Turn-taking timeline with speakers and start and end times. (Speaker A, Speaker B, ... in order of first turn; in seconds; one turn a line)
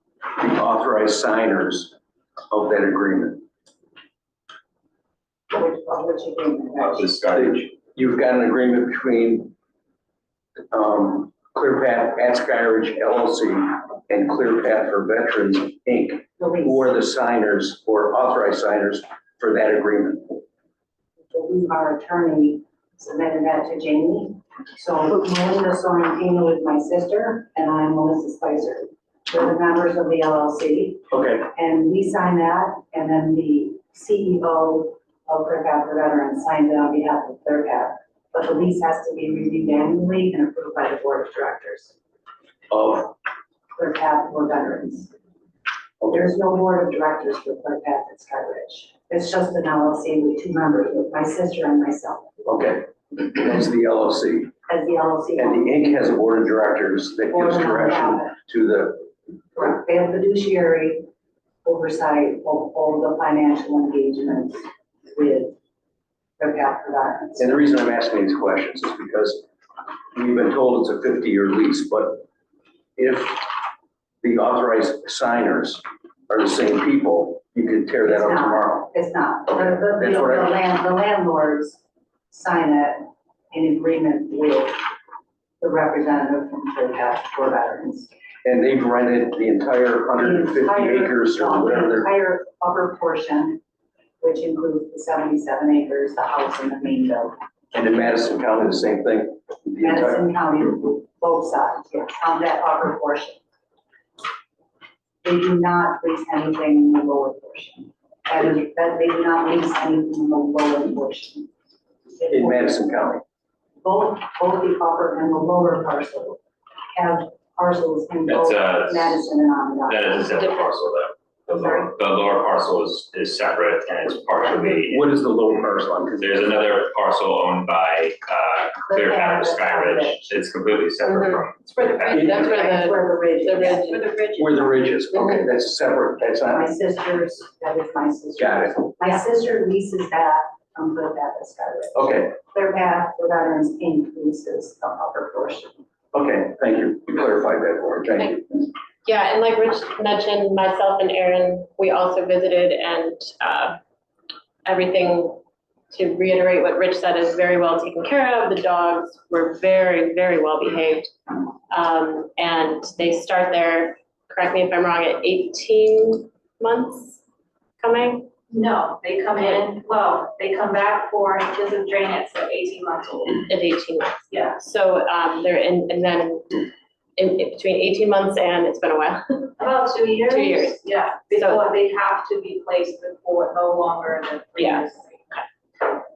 Speaker A: 0.4-1.9
Speaker A: 2.5-3.4
Speaker B: 5.5-7.1
Speaker C: 6.8-7.7
Speaker A: 7.3-9.5
Speaker A: 10.7-20.4
Speaker B: 16.4-16.9
Speaker B: 21.3-41.9
Speaker A: 31.1-31.5
Speaker A: 42.7-43.1
Speaker B: 43.8-45.1
Speaker B: 46.1-52.3
Speaker A: 52.4-54.5
Speaker B: 54.7-55.8
Speaker A: 55.4-59.1
Speaker B: 57.3-58.3
Speaker B: 59.5-61.1
Speaker B: 61.6-65.5
Speaker B: 66.4-67.5
Speaker A: 67.4-69.4
Speaker A: 70.1-72.2
Speaker A: 73.0-73.5
Speaker A: 74.2-78.9
Speaker B: 78.0-81.8
Speaker A: 79.5-80.5
Speaker B: 82.3-84.8
Speaker B: 85.6-88.1
Speaker A: 88.4-92.1
Speaker B: 90.2-93.6
Speaker B: 94.2-97.3
Speaker A: 97.7-100.2
Speaker B: 99.8-103.4
Speaker B: 105.2-111.5
Speaker B: 112.2-112.9
Speaker A: 112.3-113.2
Speaker B: 113.8-116.4
Speaker B: 116.9-120.7
Speaker C: 118.3-119.3
Speaker C: 119.9-125.1
Speaker B: 121.5-121.9
Speaker A: 124.5-126.7
Speaker C: 126.2-132.5
Speaker B: 128.8-130.4
Speaker D: 131.0-134.6
Speaker A: 132.1-132.5
Speaker B: 132.4-134.0
Speaker A: 134.3-136.7
Speaker B: 136.5-145.7
Speaker A: 138.4-138.8
Speaker A: 141.9-142.3
Speaker A: 146.1-148.7
Speaker D: 149.0-153.8
Speaker D: 154.6-155.4
Speaker D: 155.9-161.1
Speaker D: 161.7-167.2
Speaker D: 167.8-168.2
Speaker E: 168.5-173.5
Speaker D: 169.3-169.6
Speaker D: 173.5-176.6
Speaker E: 174.3-174.6
Speaker D: 177.2-179.5
Speaker E: 179.6-185.4
Speaker D: 180.3-181.6
Speaker D: 184.6-184.8